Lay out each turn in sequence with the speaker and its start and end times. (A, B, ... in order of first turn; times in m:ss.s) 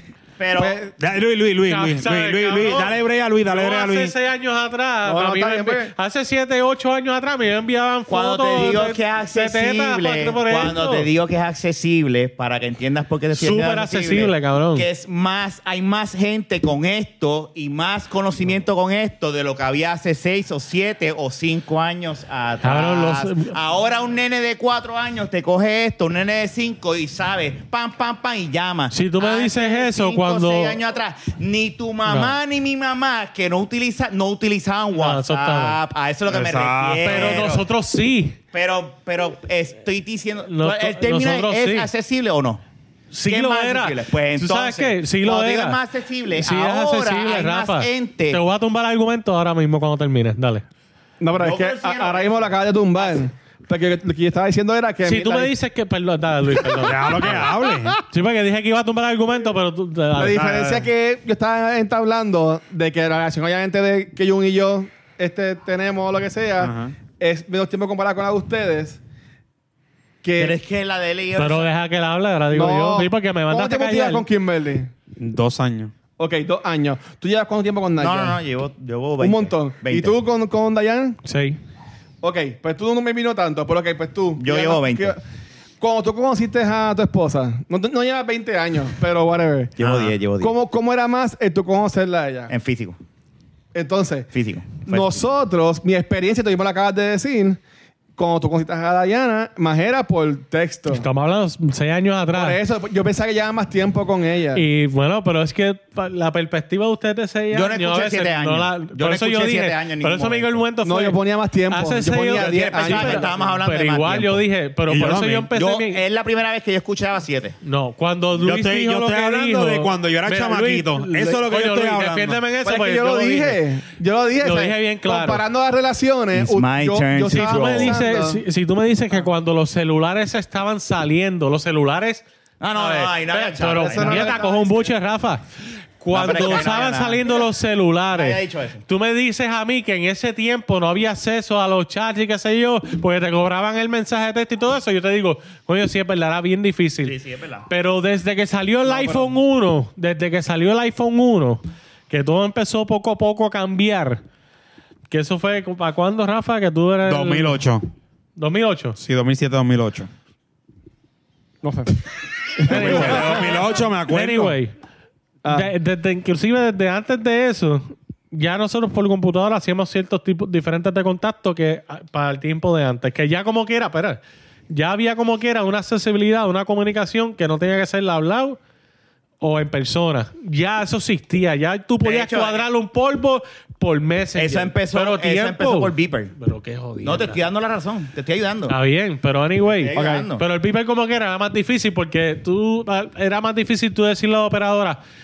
0:00.4-0:00.8 A
0:00.6-0:00.9 B
0:01.0-0:04.1 C
0:01.7-0:11.1 D
0:05.0-0:05.9 B
0:08.1-0:37.6 A
0:13.3-0:14.9 D
0:22.6-0:23.5 D
0:28.9-0:30.8 D
0:32.1-0:32.4 D
0:34.9-0:35.8 D
0:36.3-0:37.5 C
0:37.0-0:38.4 D
0:38.5-0:42.6 A
0:40.5-0:41.9 D
0:43.1-0:45.8 D
0:43.2-0:48.4 A
0:46.4-0:50.6 D
0:51.2-0:55.5 B
0:51.4-0:53.2 A
0:55.0-0:57.5 D
0:56.6-0:58.0 B
0:56.8-0:58.0 C
0:58.1-1:00.4 D
1:00.2-1:09.0 B
1:00.3-1:00.9 C
1:06.6-1:07.0 C
1:10.2-1:10.6 B
1:10.4-1:11.7 A
1:11.4-1:14.2 D
1:12.5-1:14.9 B
1:15.2-1:15.9 C
1:16.2-1:18.4 B
1:18.0-1:20.2 A
1:19.2-1:21.2 B
1:21.2-1:21.6 D
1:22.2-1:25.2 B
1:24.4-1:25.2 A
1:25.8-1:29.8 B
1:29.8-1:30.5 A
1:29.8-1:30.2 C
1:30.4-1:32.5 B
1:32.5-1:33.0 A
1:33.7-1:34.3 B
1:34.3-1:35.2 A
1:34.9-1:37.6 B
1:38.2-1:41.0 B
1:40.9-1:42.6 D
1:42.3-1:44.6 B
1:44.5-1:56.0 D
1:47.5-1:50.6 A
1:50.8-1:53.4 B
1:52.3-1:54.4 A
1:54.9-1:55.5 C
1:55.5-1:57.6 A
1:57.6-2:03.6 D
1:58.4-2:02.4 C
2:02.6-2:08.4 B
2:04.4-2:05.4 D
2:06.3-2:08.0 A
2:07.3-2:12.2 D
2:12.6-2:14.4 A
2:12.8-2:15.4 D
2:13.8-2:14.9 B
2:16.0-2:27.2 D
2:16.1-2:17.4 A
2:18.1-2:18.8 A
2:27.0-2:27.7 A
2:27.7-2:34.2 D
2:35.1-2:37.6 D
2:37.0-2:37.8 C
2:38.4-2:39.0 D
2:39.0-2:40.1 C
2:41.6-2:42.0 B
2:42.6-2:43.5 B
2:42.6-2:44.7 D
2:42.7-2:44.6 C
2:45.4-2:45.7 B
2:45.5-2:58.6 D
2:59.4-3:07.4 D
3:02.0-3:02.7 A
3:04.4-3:06.3 A
3:07.0-3:08.8 A
3:08.7-3:15.0 D
3:09.8-3:10.4 A